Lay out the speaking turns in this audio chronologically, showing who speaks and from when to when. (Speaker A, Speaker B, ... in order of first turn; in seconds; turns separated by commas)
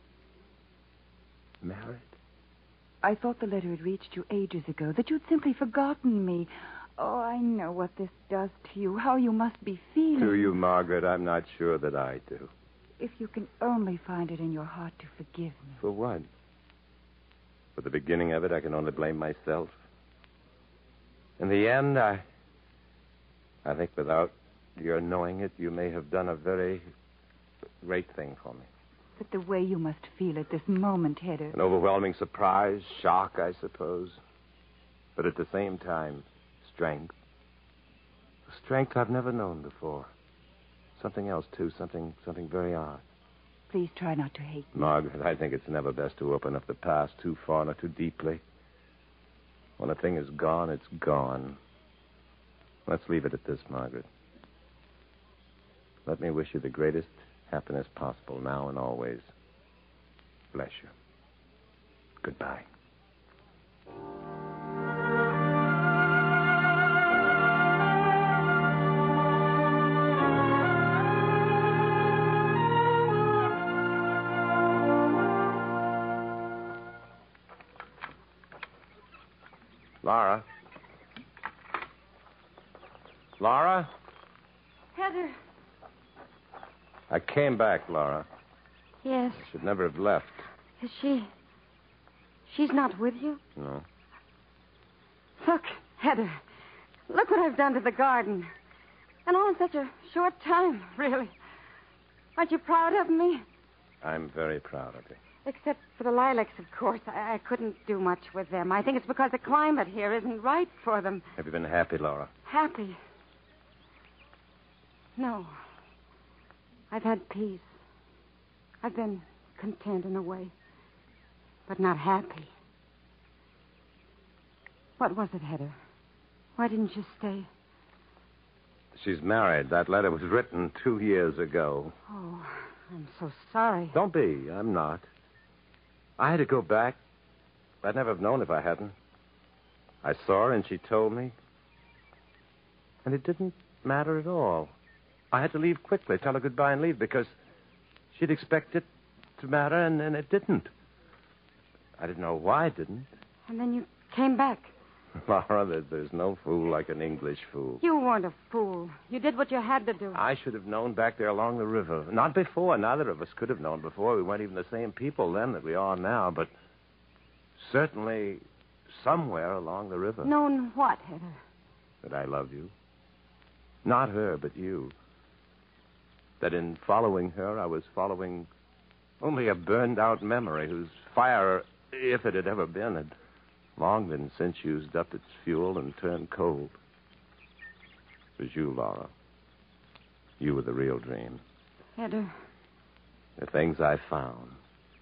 Speaker A: 1.6-2.1, Speaker B: 3.0-10.6, Speaker A: 10.2-12.5, Speaker B: 13.0-15.8, Speaker A: 15.8-16.3, Speaker A: 17.8-19.8, Speaker A: 21.4-22.2, Speaker A: 23.6-26.9, Speaker A: 27.8-28.7, Speaker B: 29.2-31.6, Speaker A: 31.5-34.2, Speaker A: 35.1-37.1, Speaker A: 38.5-40.1, Speaker A: 41.0-43.0, Speaker B: 43.7-44.7, Speaker A: 44.7-48.4, Speaker A: 49.8-51.6, Speaker A: 52.9-54.1, Speaker A: 56.0-59.3, Speaker A: 60.5-60.9, Speaker A: 62.2-62.6, Speaker A: 80.0-80.4, Speaker A: 83.4-83.9, Speaker C: 84.9-85.3, Speaker A: 87.1-88.2, Speaker C: 89.0-89.5, Speaker A: 89.4-90.5, Speaker C: 90.8-91.3, Speaker C: 92.5-93.4, Speaker A: 93.5-93.8, Speaker C: 95.4-96.4, Speaker C: 97.1-98.5, Speaker C: 99.2-101.3, Speaker C: 102.3-103.4, Speaker A: 104.0-105.2, Speaker C: 105.4-111.2, Speaker A: 111.3-112.3, Speaker C: 112.5-113.0, Speaker C: 115.2-115.5, Speaker C: 116.9-117.7, Speaker C: 118.8-120.5, Speaker C: 121.7-122.5, Speaker C: 125.0-125.8, Speaker C: 126.6-127.5, Speaker A: 128.9-131.9, Speaker C: 132.1-133.9, Speaker A: 133.9-135.1, Speaker A: 136.2-137.0, Speaker A: 137.8-138.9, Speaker A: 140.0-141.3, Speaker A: 143.0-144.7, Speaker A: 145.3-147.3, Speaker A: 148.1-148.8, Speaker A: 149.4-150.7, Speaker A: 152.0-153.1, Speaker C: 153.5-154.7, Speaker A: 155.2-157.8, Speaker C: 157.8-160.2, Speaker A: 160.1-166.5, Speaker A: 167.6-170.3, Speaker C: 170.2-171.4, Speaker A: 172.0-172.7, Speaker A: 173.8-174.9, Speaker A: 176.4-178.5, Speaker A: 179.2-183.1, Speaker A: 183.8-186.8, Speaker A: 188.4-189.1, Speaker A: 190.4-191.4, Speaker C: 192.0-192.3, Speaker A: 193.4-194.6